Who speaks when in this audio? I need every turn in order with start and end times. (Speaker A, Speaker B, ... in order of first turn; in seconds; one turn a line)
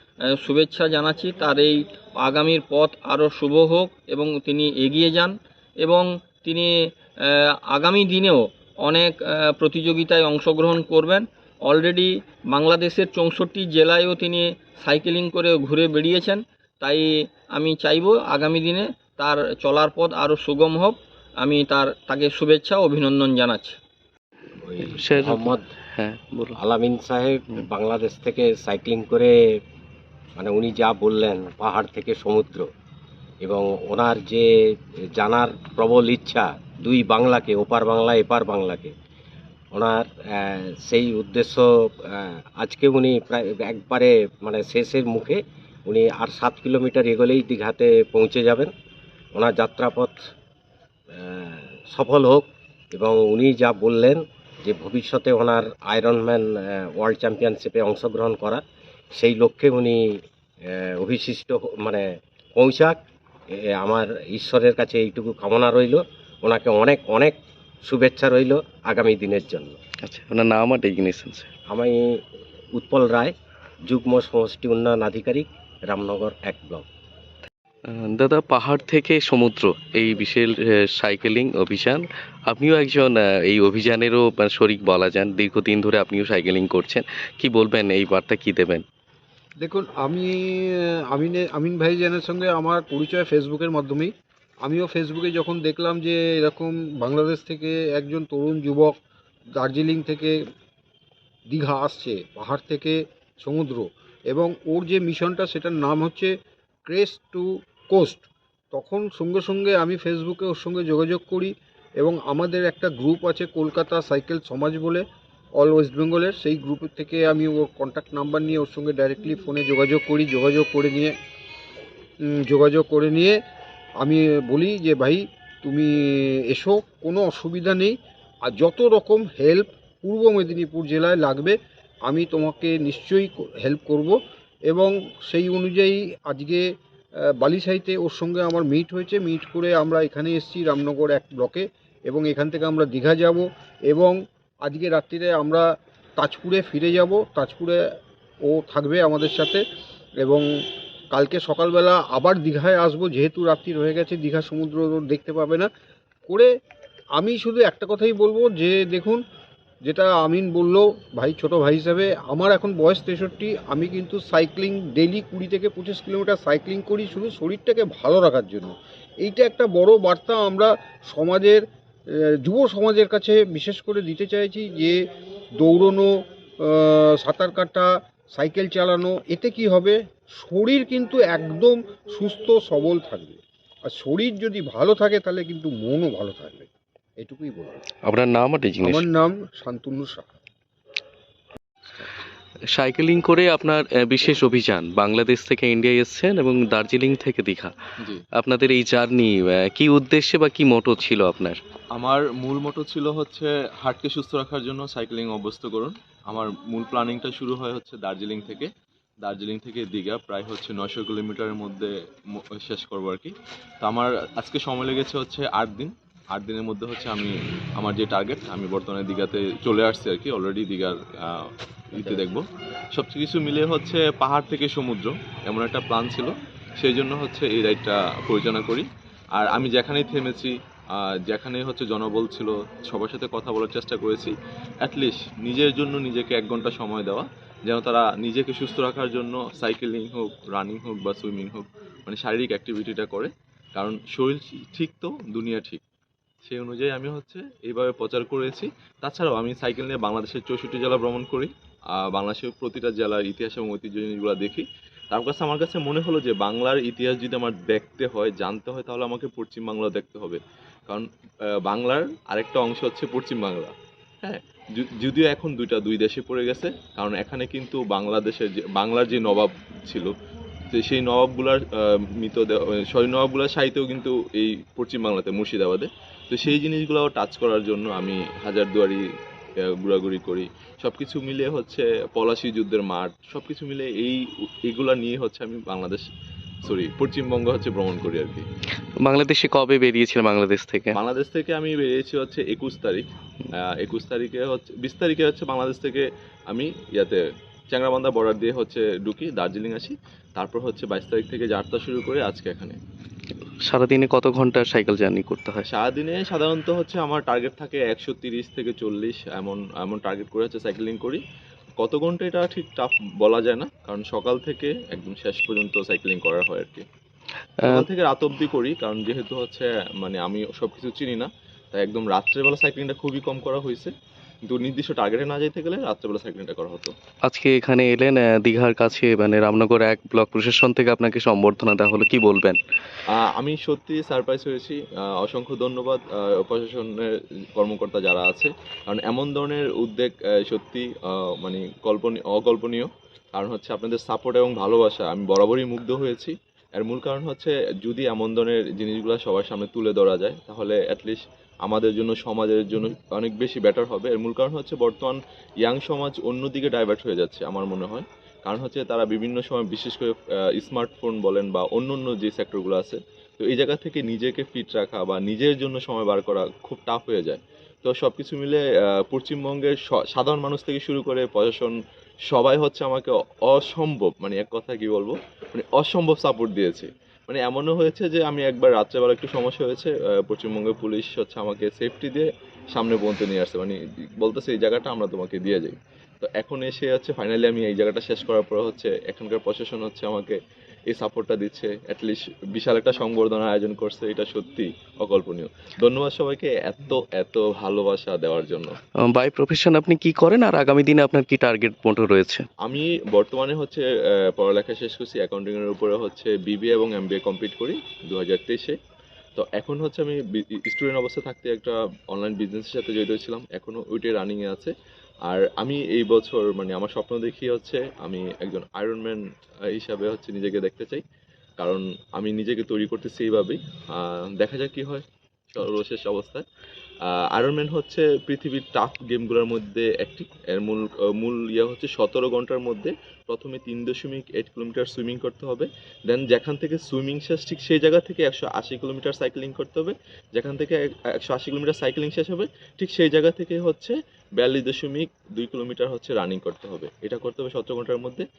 Speaker A: 0.4-23.8
Speaker B: 24.7-25.6
Speaker C: 24.8-26.6
Speaker B: 26.6-29.3
Speaker B: 30.4-32.7
Speaker B: 33.4-34.5
Speaker B: 35.1-38.9
Speaker B: 39.7-41.7
Speaker B: 42.2-45.4
Speaker B: 45.9-48.7
Speaker B: 49.3-50.1
Speaker B: 51.2-52.4
Speaker B: 52.9-56.5
Speaker B: 57.0-58.6
Speaker B: 59.2-60.0
Speaker B: 61.0-63.0
Speaker B: 63.8-67.3
Speaker B: 67.9-69.8
Speaker C: 70.0-71.5
Speaker B: 71.7-72.0
Speaker B: 72.7-73.3
Speaker B: 73.9-76.8
Speaker C: 77.9-88.8
Speaker D: 89.6-94.1
Speaker D: 94.6-98.9
Speaker D: 99.6-100.3
Speaker D: 101.5-106.3
Speaker D: 106.8-115.0
Speaker D: 115.6-121.1
Speaker D: 122.3-123.4
Speaker D: 124.0-134.2
Speaker D: 134.7-136.7
Speaker D: 137.2-147.8
Speaker D: 148.4-149.6
Speaker D: 150.2-150.5
Speaker D: 151.1-155.7
Speaker D: 157.2-159.2
Speaker D: 159.8-171.6
Speaker D: 172.4-175.0
Speaker D: 175.6-176.1
Speaker D: 176.6-186.7
Speaker D: 187.2-187.8
Speaker C: 188.0-189.0
Speaker D: 188.8-190.3
Speaker C: 192.7-197.7
Speaker C: 198.4-201.6
Speaker E: 201.9-208.7
Speaker E: 209.2-245.8
Speaker E: 246.4-261.1
Speaker E: 261.6-270.1
Speaker E: 270.7-279.0
Speaker E: 279.7-286.0
Speaker E: 286.6-288.4
Speaker C: 289.0-290.9
Speaker E: 290.9-293.1
Speaker E: 293.6-302.8
Speaker C: 303.6-305.6
Speaker E: 305.6-311.2
Speaker E: 311.8-316.8
Speaker E: 317.7-323.9
Speaker E: 324.4-326.9
Speaker C: 327.2-332.6
Speaker E: 333.1-371.8
Speaker E: 372.3-390.4
Speaker E: 390.9-398.7
Speaker C: 399.0-402.4
Speaker E: 402.6-408.8
Speaker E: 409.4-414.7
Speaker E: 415.3-421.0
Speaker E: 421.6-426.4
Speaker E: 427.1-448.2